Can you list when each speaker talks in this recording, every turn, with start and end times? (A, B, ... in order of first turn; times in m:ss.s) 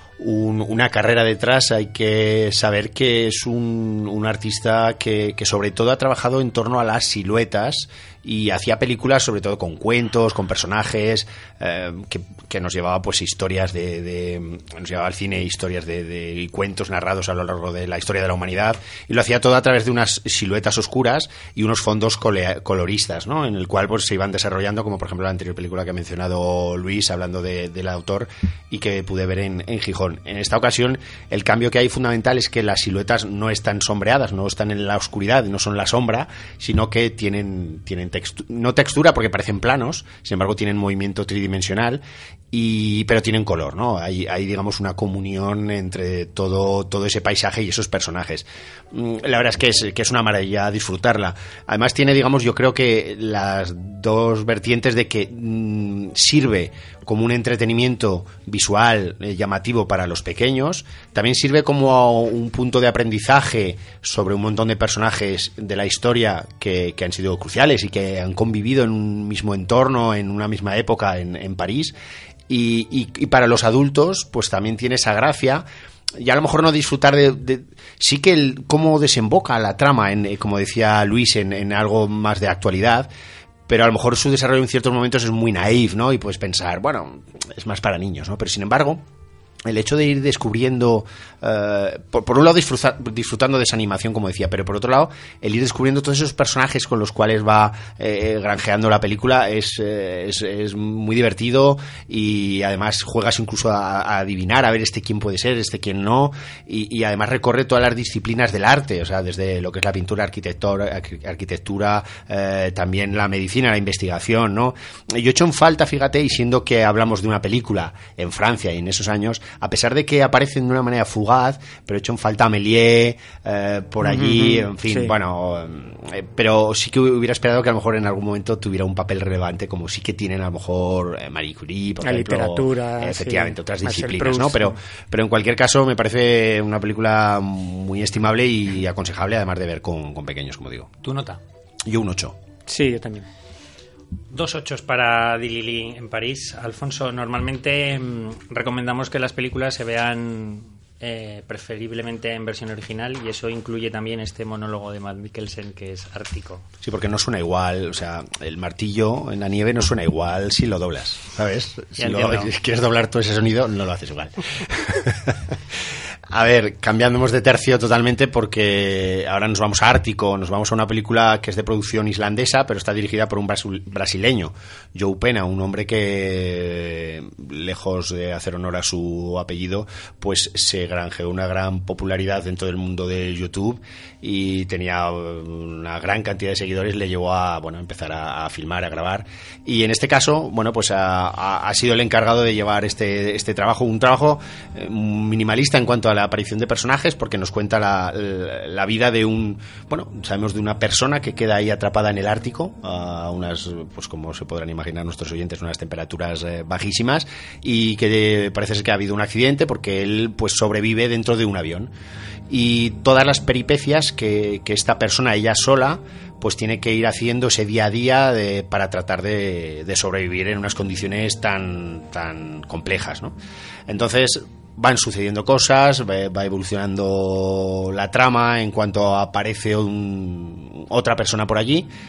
0:00.2-1:12.0 A
1:12.5-1:15.6 A
1:16.2-1:23.1 A
1:23.7-1:29.0 A
1:29.7-2:20.9 A
2:04.0-2:05.2 B
2:12.0-2:14.8 B
2:21.0-2:21.4 C
2:21.8-2:22.4 A
2:22.7-2:23.3 B
2:24.3-2:36.6 C
2:36.8-2:45.6 A
2:42.0-2:42.5 C
2:46.3-3:31.9 A
3:32.5-3:43.4 A
3:43.9-3:51.9 A